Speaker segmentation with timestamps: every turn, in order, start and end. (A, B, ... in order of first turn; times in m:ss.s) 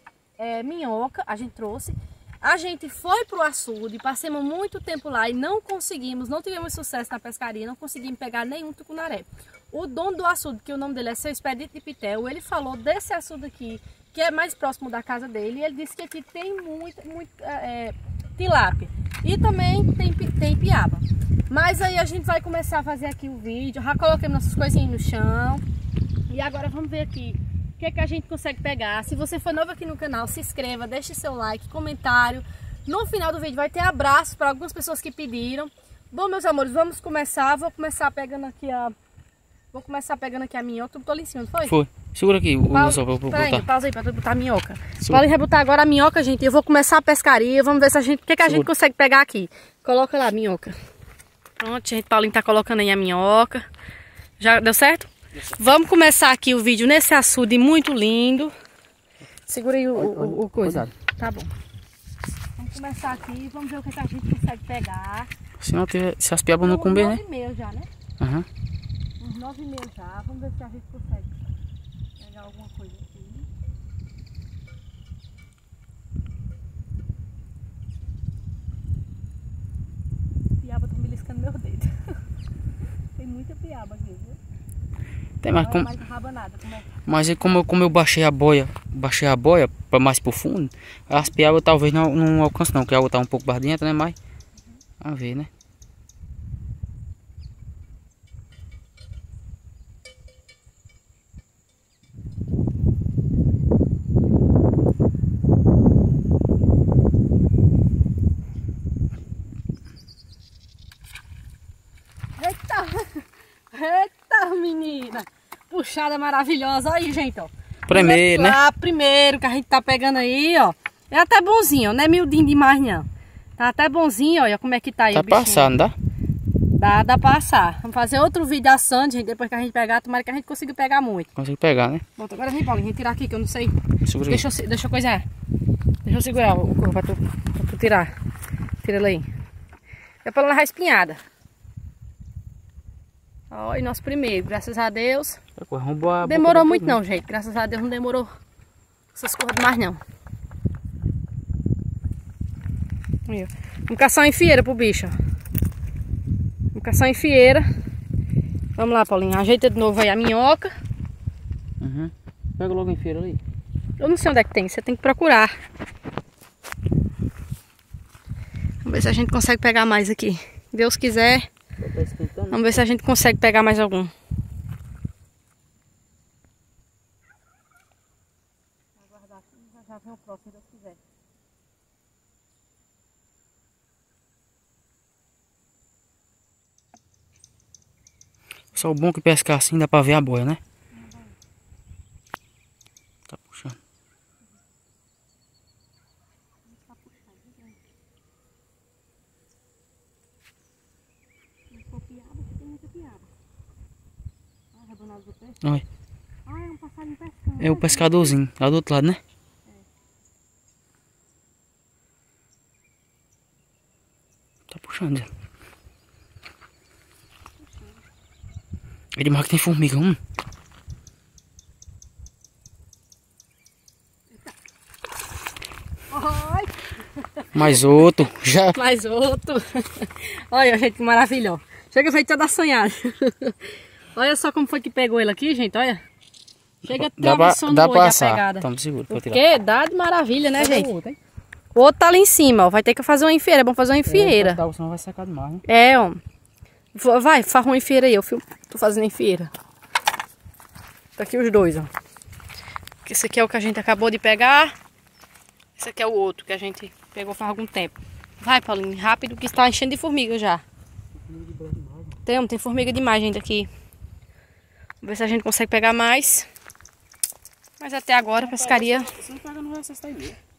0:00.4-0:25.6 A
0:26.3-0:38.9 A
0:39.7-0:41.8 A
0:41.7-0:43.7 B
0:42.7-0:50.8 A
0:51.6-0:53.6 A
0:54.4-0:58.5 A
0:59.5-1:01.5 A
1:00.0-1:00.9 B
1:02.6-1:05.3 A
1:05.6-1:07.2 B
1:06.6-1:07.9 A
1:08.2-1:08.5 B
1:09.2-1:11.4 A
1:12.2-1:13.5 A
1:20.6-1:22.2 A
1:23.2-1:24.4 A
1:25.4-1:25.9 B
1:25.6-1:26.9 A
1:27.1-1:34.2 B
1:35.0-1:35.5 B
1:52.4-2:03.1 A
1:57.9-1:58.6 B
2:03.6-2:05.7 A
2:05.1-2:06.0 B
2:06.8-2:11.3 A
2:11.4-2:12.0 B
2:12.2-2:15.3 A
2:14.1-2:14.5 B
2:16.0-2:18.1 A
2:18.8-2:19.3 A
2:20.2-2:21.2 A
2:23.5-2:25.4 A
2:25.6-2:27.0 B
2:26.2-2:28.3 A
2:29.2-2:30.0 A
2:33.3-2:35.2 A
2:36.7-2:37.7 A
2:38.8-2:40.7 A
2:41.8-2:43.4 B
2:44.0-2:45.6 A
2:48.8-2:51.5 A
2:51.8-2:52.8 B
2:52.5-2:54.1 A
2:59.1-3:01.0 A
3:08.7-3:10.6 B
3:13.3-3:13.8 B
3:16.7-3:17.8 A
3:21.7-3:23.3 A
3:24.7-3:25.6 A
3:26.5-3:28.4 A
3:27.6-3:29.2 B
3:34.7-3:35.3 B
3:39.2-3:40.2 B
3:46.1-3:47.8 A
3:47.5-3:48.8 B
3:48.7-3:56.0 A
3:56.8-4:00.9 A
3:56.9-3:59.4 B
4:00.6-4:01.2 B
4:01.8-4:04.6 A
4:04.1-4:05.6 B
4:05.7-4:06.2 A
4:06.9-4:09.5 A
4:11.2-4:11.9 A
4:13.0-4:14.8 A
4:15.8-4:20.6 A
4:21.2-4:22.2 B
4:22.2-4:23.7 A
4:25.0-4:26.5 A
4:27.8-4:29.1 A
4:28.4-4:30.4 B